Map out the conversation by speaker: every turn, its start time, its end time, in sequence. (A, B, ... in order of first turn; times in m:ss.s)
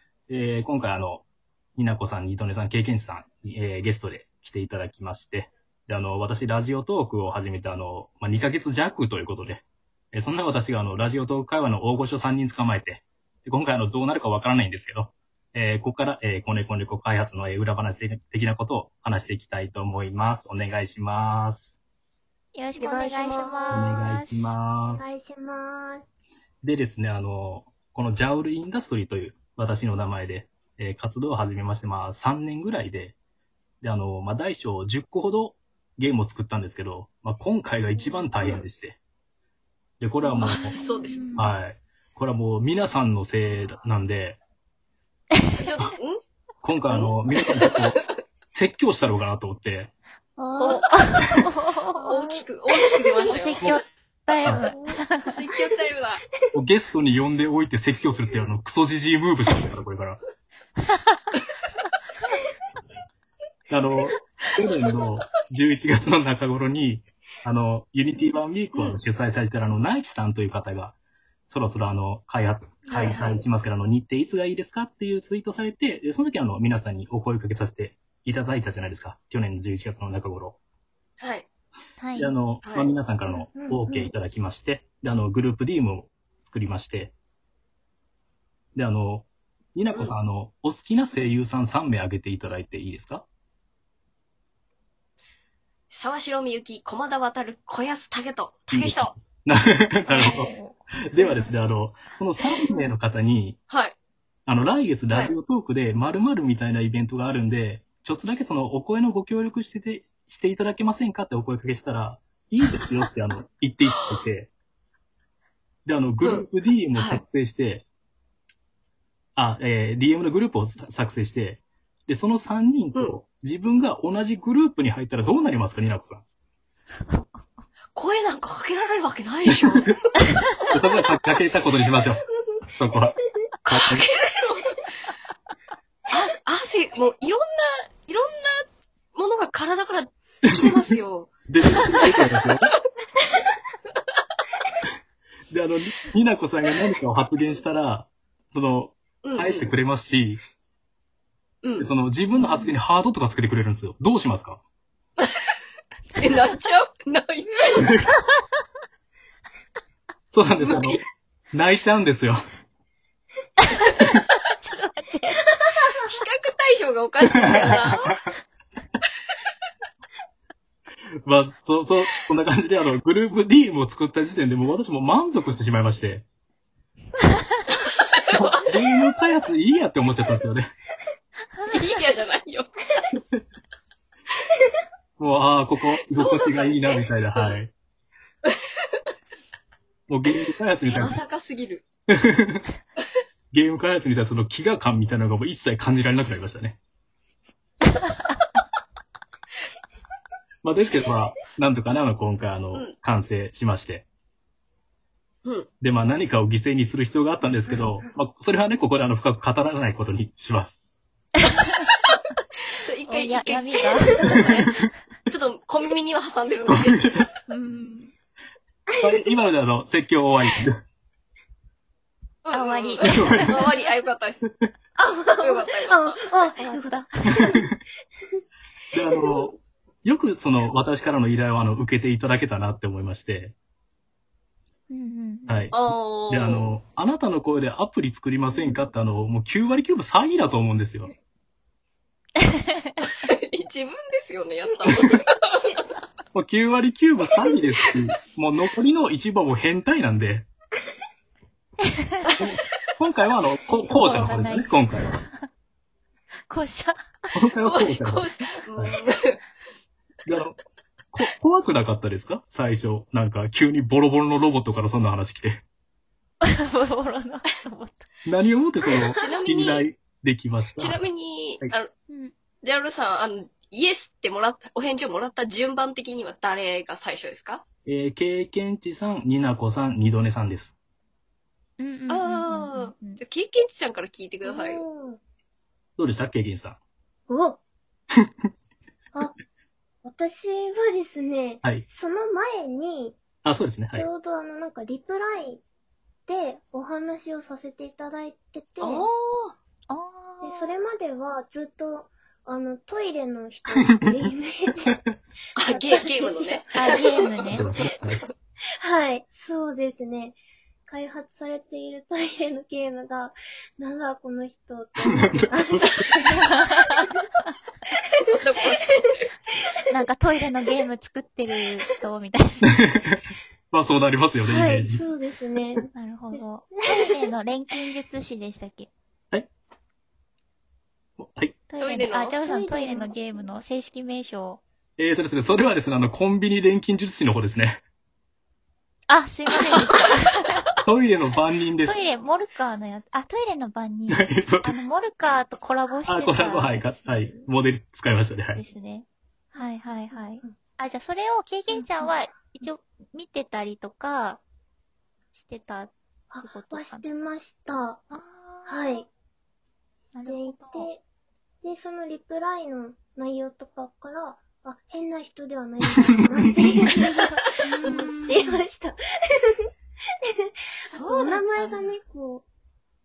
0:00.3-0:01.2 A
0:01.8-0:21.7 A
0:22.5-0:24.6 B
0:22.8-0:24.1 C
0:23.7-0:25.0 A
0:24.9-0:26.0 D
0:26.6-0:33.1 A
0:33.8-0:39.0 A
0:40.0-0:40.8 A
0:40.4-0:41.2 C
0:41.0-0:41.4 D
0:41.4-0:44.4 A
0:45.6-0:46.2 C
0:46.6-0:48.0 A
0:47.3-0:48.1 C
0:48.5-0:49.9 A
0:50.4-0:50.9 D
0:50.6-0:53.6 C
0:50.9-0:52.0 B
0:53.2-0:55.3 B
0:54.7-0:55.0 D
0:55.2-0:56.2 C
0:56.5-1:00.2 A
1:00.9-1:01.2 B
1:03.7-1:11.0 A
1:08.7-1:09.0 C
1:11.5-1:20.6 A
1:12.9-1:13.4 C
1:21.2-1:21.4 C
1:22.0-1:22.3 B
1:22.2-1:27.1 A
1:22.6-1:22.9 C
1:23.5-1:24.1 D
1:28.7-1:33.2 A
1:35.9-1:39.1 C
1:38.7-1:40.5 A
1:40.1-1:41.5 B
1:41.0-1:43.6 A
1:43.7-1:43.9 C
1:44.4-1:54.5 A
1:55.8-1:57.8 A
1:56.2-1:57.2 C
1:59.4-2:06.2 A
2:07.1-2:07.4 B
2:07.9-2:09.9 C
2:10.7-2:12.2 A
2:12.8-2:13.1 A
2:13.6-2:14.9 C
2:13.7-2:14.1 A
2:16.1-2:18.6 C
2:19.1-2:22.1 C
2:21.5-2:22.7 A
2:25.5-2:30.4 A
2:29.2-2:29.7 C
2:31.6-2:31.9 C
2:31.8-2:34.6 A
2:35.2-2:35.5 C
2:36.2-2:37.9 C
2:37.7-2:38.1 A
2:40.3-2:41.0 A
2:40.6-2:41.0 C
2:41.5-2:42.4 A
2:44.5-2:45.4 B
2:45.8-2:48.2 C
2:51.2-2:56.2 A
2:58.3-3:00.7 A
3:01.7-3:03.1 C
3:05.2-3:07.7 A
3:06.0-3:07.6 C
3:10.1-3:11.2 A
3:10.9-3:11.8 C
3:12.1-3:12.6 A
3:13.5-3:16.8 A
3:20.6-3:24.0 A
3:25.8-3:30.8 A
3:31.4-3:31.7 B
3:32.1-3:34.7 C
3:33.1-3:34.5 B
3:35.3-3:37.1 C
3:36.7-3:37.2 A
3:37.5-3:38.1 B
3:39.0-3:40.8 A
3:42.4-3:44.4 C
3:42.5-3:43.6 B
3:43.0-3:43.6 A
3:45.0-3:47.7 D
3:45.4-3:46.8 C
3:46.8-3:47.4 B
3:48.9-3:53.5 A
3:49.1-3:49.5 D
3:54.9-3:55.7 B
3:55.5-4:01.1 A
3:55.7-3:56.7 C
4:02.4-4:02.9 B
4:03.0-4:05.8 C
4:06.3-4:10.5 A
4:11.8-4:12.3 B
4:12.4-4:15.2 A
4:13.8-4:15.5 B
4:16.5-4:17.3 B
4:17.3-4:19.0 A
4:17.6-4:19.4 C
4:20.2-4:20.6 A
4:21.1-4:25.6 A
4:26.4-4:28.1 B
4:28.2-4:31.0 A
4:29.2-4:29.9 C
4:30.8-4:31.9 C
4:32.1-4:32.3 B
4:32.6-4:37.6 C
4:37.8-4:40.7 A
4:41.8-4:43.2 B
4:42.1-4:44.8 C
4:44.4-4:45.2 D
4:46.0-4:46.8 A
4:47.3-4:47.6 D
4:50.0-4:53.2 D
4:53.4-4:54.1 A
4:53.9-4:55.6 D
4:56.3-4:59.1 D
4:58.8-4:59.6 C
4:59.9-5:00.8 B
5:00.4-5:04.9 D
5:04.8-5:05.1 A
5:05.6-5:07.6 C
5:05.7-5:07.2 D
5:06.7-5:07.7 B
5:07.5-5:08.2 A
5:08.8-5:16.4 D
5:16.4-5:17.1 B
5:18.4-5:19.3 C
5:19.9-5:22.8 B
5:22.8-5:23.2 A
5:23.7-5:25.1 A
5:24.4-5:27.3 D
5:25.9-5:28.9 B
5:31.2-5:31.6 A
5:31.7-5:34.6 B
5:31.8-5:32.4 C
5:32.3-5:33.4 D
5:35.0-5:37.8 A
5:39.1-5:40.5 B
5:40.8-5:42.0 A
5:41.8-5:47.4 B
5:44.1-5:44.7 A
5:46.1-5:48.6 A
5:48.6-5:49.0 B
5:49.5-5:50.5 D
5:49.6-5:54.4 B
5:51.7-5:52.6 D
5:55.3-5:57.0 B
5:56.3-5:58.0 D
5:58.1-5:59.0 B
5:58.6-5:59.0 D
6:00.1-6:00.9 B
6:00.2-6:01.0 D
6:01.6-6:09.6 D
6:07.7-6:08.4 C
6:10.4-6:12.4 D
6:10.9-6:11.9 C